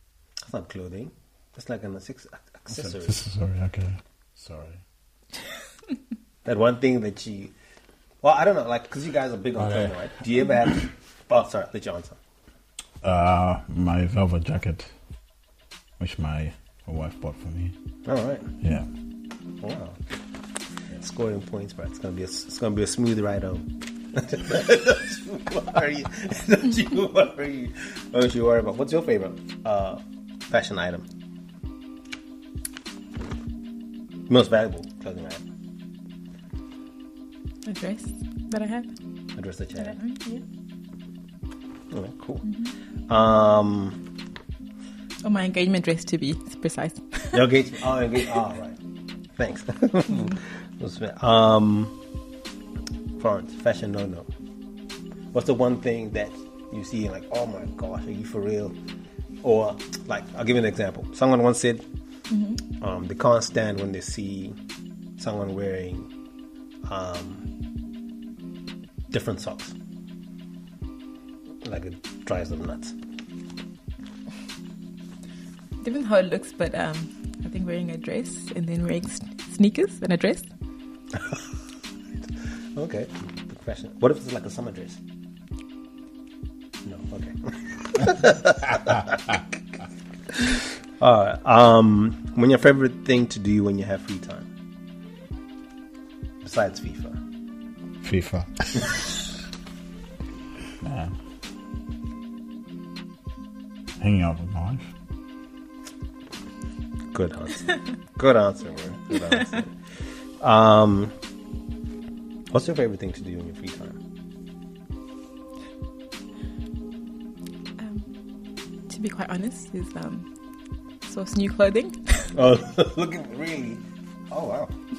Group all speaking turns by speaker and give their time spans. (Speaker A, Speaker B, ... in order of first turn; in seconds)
Speaker A: 0.5-3.2, 6.4-7.5, 8.2-12.2, 18.0-18.5, 19.6-20.0, 20.9-31.1, 34.3-35.4, 39.4-40.0, 41.9-42.5, 43.1-44.0, 47.3-48.8, 49.4-52.0, 53.2-54.3, 55.3-58.7, 59.4-61.8, 62.8-64.5, 65.2-66.1, 66.8-67.5, 69.1-69.7, 71.6-72.9, 82.7-85.0, 86.8-89.4, 90.3-94.5, 96.4-97.2, 107.1-109.8, 110.4-111.1, 112.5-114.0, 122.3-124.7
Speaker B: 2.7-4.8, 9.6-9.9, 13.0-14.9, 16.0-17.7, 18.6-18.9, 98.0-99.1, 100.8-101.2, 104.0-104.9
Speaker C: 37.6-38.9, 39.8-40.4, 45.2-47.4, 62.3-62.6, 75.8-80.5, 117.8-118.1, 118.9-120.2, 121.0-122.3